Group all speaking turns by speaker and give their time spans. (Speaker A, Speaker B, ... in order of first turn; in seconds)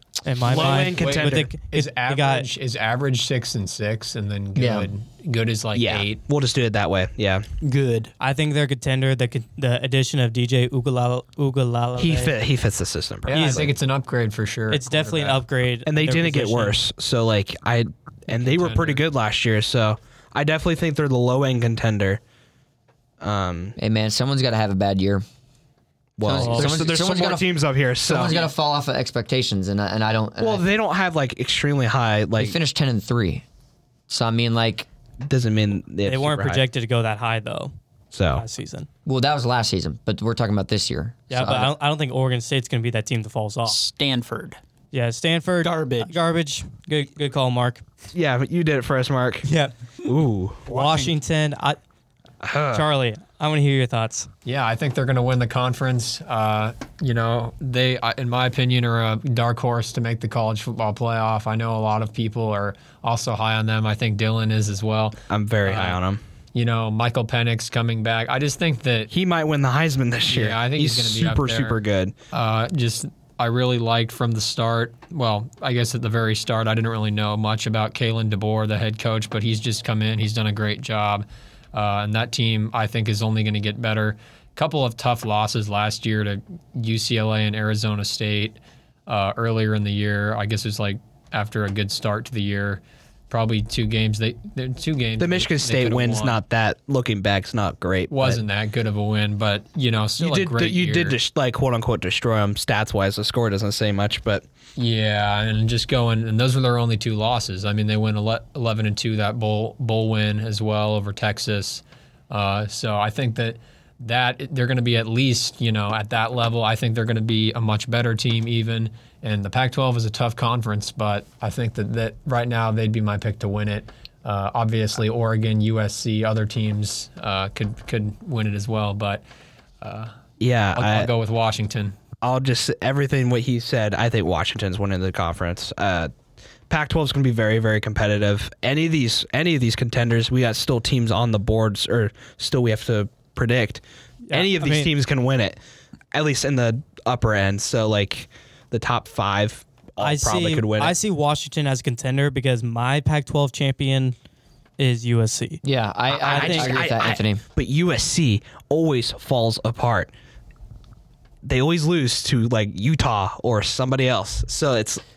Speaker A: 0.2-2.5, 8.2-12.3, 13.3-13.7, 14.7-16.8, 26.4-26.7, 36.1-37.7, 38.3-38.9, 41.3-43.8, 44.9-47.8, 49.5-49.7, 50.7-51.8, 52.7-54.3, 144.3-144.9, 150.0-154.2, 154.8-155.6, 156.3-156.8
Speaker B: 0.4-1.5, 5.7-7.5, 12.0-13.7, 15.9-22.2, 23.2-23.8, 26.2-28.4, 30.4-32.6, 35.2-36.6, 38.1-38.4, 48.1-49.5, 50.0-50.7, 52.4-52.9, 65.3-66.2, 69.1-72.1, 95.2-98.4, 100.2-104.5, 130.4-131.1, 132.2-136.1, 136.7-145.6, 146.1-150.9, 156.1-160.1, 161.4-165.0
Speaker C: 0.5-6.2, 13.3-15.4, 18.3-19.0, 54.5-66.0, 66.5-69.1, 70.3-71.8, 72.3-96.4, 98.1-101.2, 104.8-129.2, 129.8-130.1, 130.8-132.0
Speaker D: 4.6-4.9, 23.8-25.2, 26.2-27.5, 28.0-30.7, 32.4-33.4, 34.1-34.9, 39.1-41.7, 155.6-157.4
Speaker E: 7.6-8.1, 43.7-44.6, 45.6-46.2, 50.7-51.1